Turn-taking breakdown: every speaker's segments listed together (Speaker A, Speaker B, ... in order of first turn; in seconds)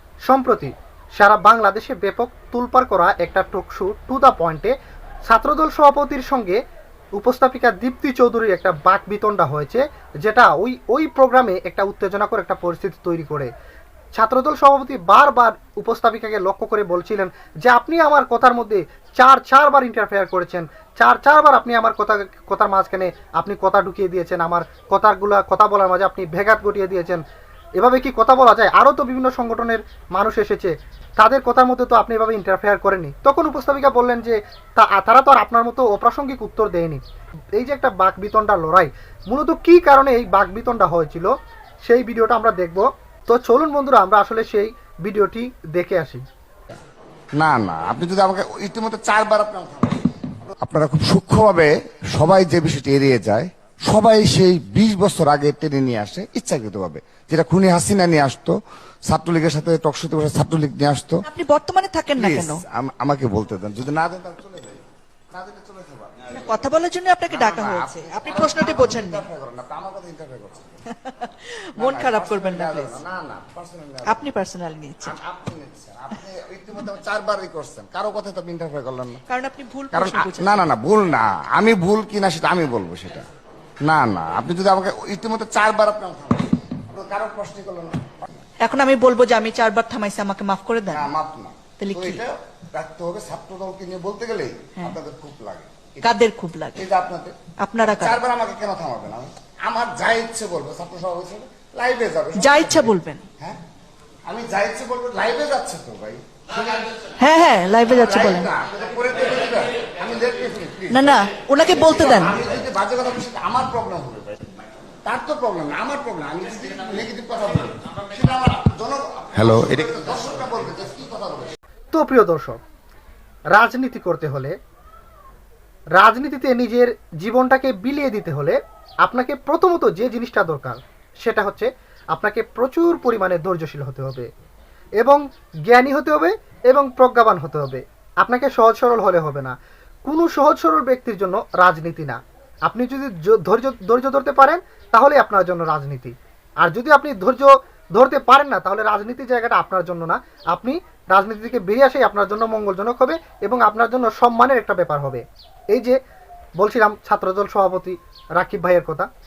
Speaker A: 0.3-4.7, 5.3-6.6, 7.2-13.5, 14.1-27.2, 27.8-37.0, 37.5-41.3, 41.8-46.2, 121.9-122.6, 123.5-124.5, 126.0-134.3, 135.0-139.5, 140.1-155.9, 156.6-159.1
Speaker B: 47.4-58.5, 59.1-61.2, 62.1-66.6, 67.3-70.8, 71.8-74.3, 75.0-79.2, 79.9-83.2, 83.8-88.4, 90.9-96.2, 96.7-103.6, 104.3-106.2, 107.9-114.4, 115.0-121.5
Speaker C: 61.2-62.6, 66.3-69.2, 70.9-73.0, 74.0-75.2, 79.3-80.7, 88.6-91.1, 91.8-92.2, 96.0-96.8, 97.6-98.2, 102.4-103.2, 107.2-108.5, 110.9-112.4